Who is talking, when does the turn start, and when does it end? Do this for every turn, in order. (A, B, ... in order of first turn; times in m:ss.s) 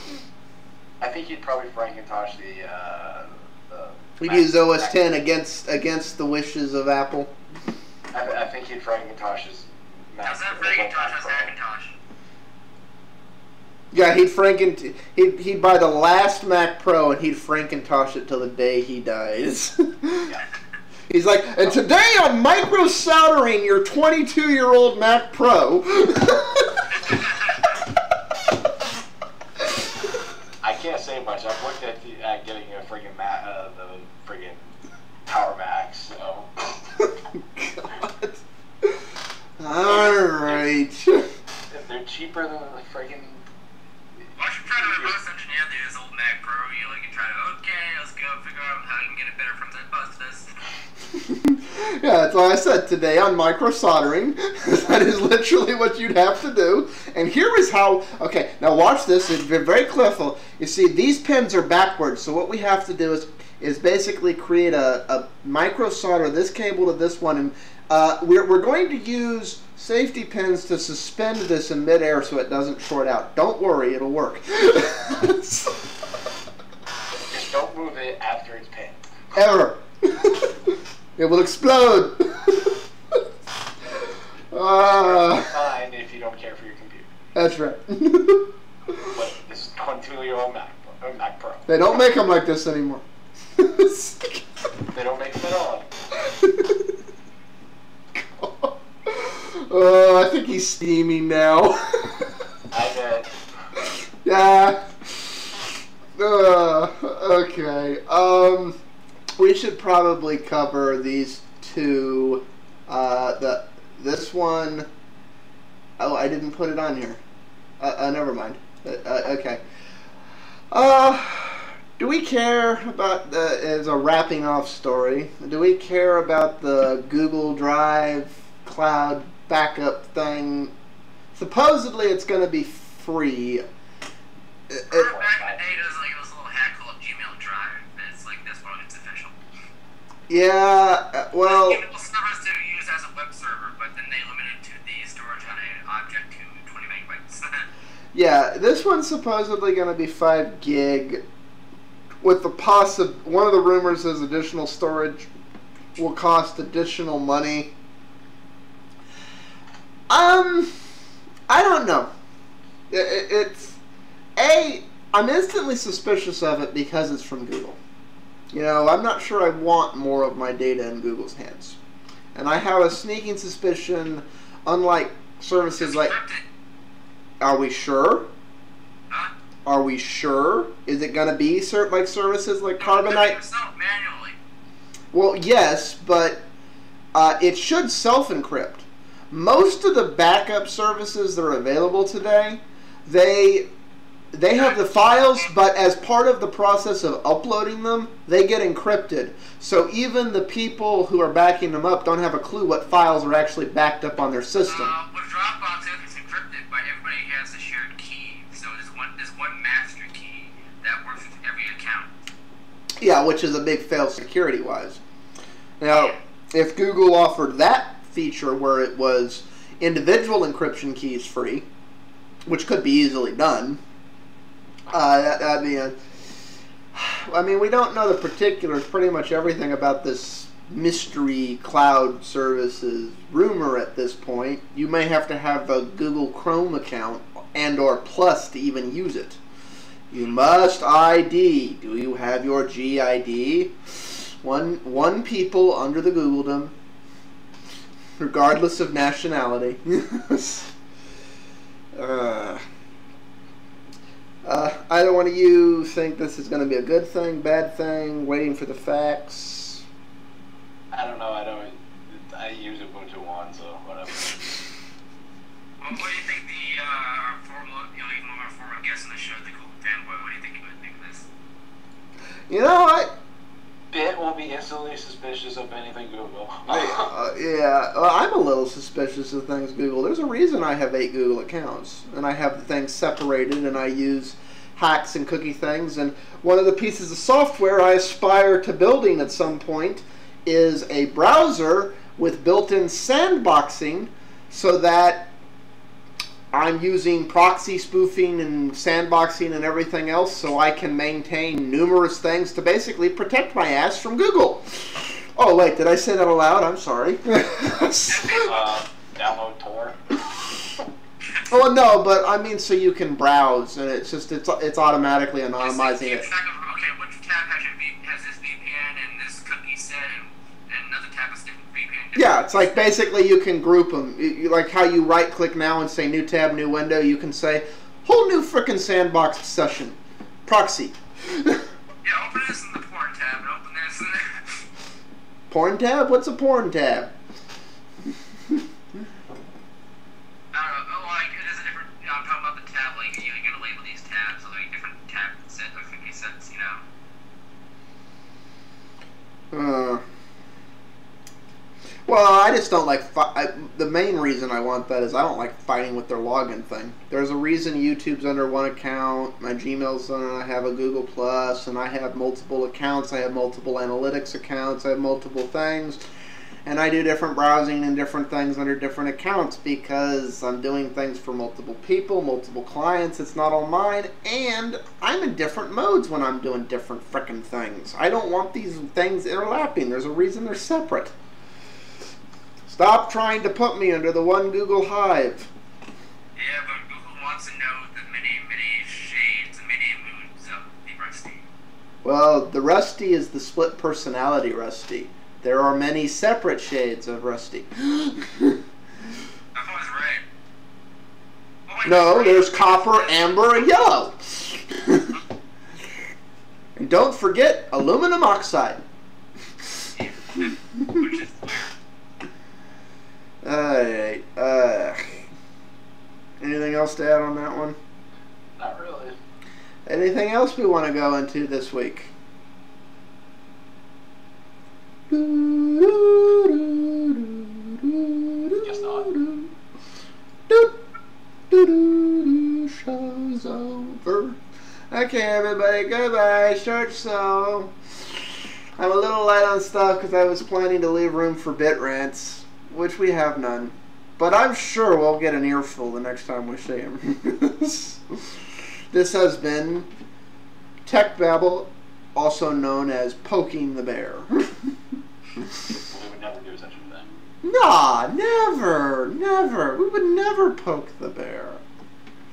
0:01.0-0:05.0 A
0:04.2-0:07.3 B
0:08.1-0:11.6 A
0:10.2-0:11.9 C
0:13.9-0:20.3 B
0:21.1-0:27.0 B
0:30.6-0:34.6 A
0:35.3-0:36.7 A
0:37.3-0:39.0 B
0:39.6-0:41.2 B
0:39.8-0:40.7 A
0:41.7-0:43.4 A
0:44.4-0:50.5 C
0:44.7-0:45.2 A
0:51.1-1:15.8 B
1:17.3-1:19.0 A
1:19.3-1:22.7 B
1:24.5-1:25.5 B
1:24.8-1:27.1 A
1:27.4-1:28.5 B
1:29.0-1:31.7 A
1:31.7-1:33.0 B
1:33.6-1:34.4 B
1:34.9-1:35.9 A
1:36.2-1:36.8 B
1:38.2-1:42.4 B
1:42.7-1:43.3 A
1:43.8-1:45.6 B
1:46.2-1:48.8 B
1:49.4-1:54.9 B
1:56.0-1:57.2 B
1:57.8-1:59.6 B
2:00.7-2:10.7 B
2:11.3-2:13.6 B
2:14.7-2:15.1 B
2:14.9-2:19.3 C
2:14.9-2:15.9 A
2:20.3-2:21.8 B
2:21.4-2:27.6 C
2:28.1-2:31.2 B
2:32.2-2:35.3 B
2:36.0-2:37.7 B
2:40.1-2:40.7 B
2:41.5-2:42.1 B
2:42.9-2:43.8 B
2:44.4-2:47.8 B
2:48.5-2:51.8 B
2:52.4-2:56.2 B
2:55.8-2:56.4 C
2:57.4-2:58.3 B
2:59.7-3:03.4 B
3:02.8-3:04.4 C
3:05.1-3:06.5 B
3:07.1-3:13.7 B
3:14.3-3:24.9 B
3:14.6-3:15.5 C
3:24.6-3:32.1 C
3:33.0-3:35.0 B
3:35.8-3:41.6 B
3:35.9-3:36.2 C
3:42.5-3:43.8 B
3:44.9-3:46.0 B
3:46.9-3:59.4 B
4:00.1-4:06.7 B
4:08.2-4:10.7 B
4:12.0-4:12.6 B
4:14.4-4:19.8 B
4:20.9-4:24.6 A
4:25.8-4:31.3 C
4:32.5-4:33.1 B
4:33.9-4:37.1 A
4:36.7-4:55.3 B
4:56.5-5:08.5 B
5:08.1-5:08.6 C
5:08.4-5:10.0 A
5:11.5-5:16.3 B
5:15.6-5:22.7 C
5:22.2-5:31.6 B
5:32.0-5:34.6 C
5:35.5-5:37.1 B
5:40.5-5:46.8 C
5:49.5-5:50.0 B
5:52.1-6:06.0 B
6:06.6-6:21.1 B
6:22.7-6:25.5 B
6:26.4-6:31.4 C
6:32.0-6:38.6 B
6:39.6-6:40.2 C
6:41.7-6:43.9 C
6:41.8-6:45.2 B
6:46.8-6:48.8 B
6:50.0-6:51.7 C
6:50.8-6:51.0 B
6:53.4-6:55.3 B
6:56.4-6:57.8 B
6:58.6-6:59.2 A
6:59.9-7:02.1 B
7:05.1-7:09.5 B
7:08.6-7:09.1 A
7:10.5-7:10.8 B
7:11.5-7:14.4 B
7:14.9-7:17.8 B
7:18.8-7:28.0 B
7:28.9-7:29.9 B
7:30.8-7:34.5 B
7:35.8-7:37.1 A
7:37.4-7:41.6 B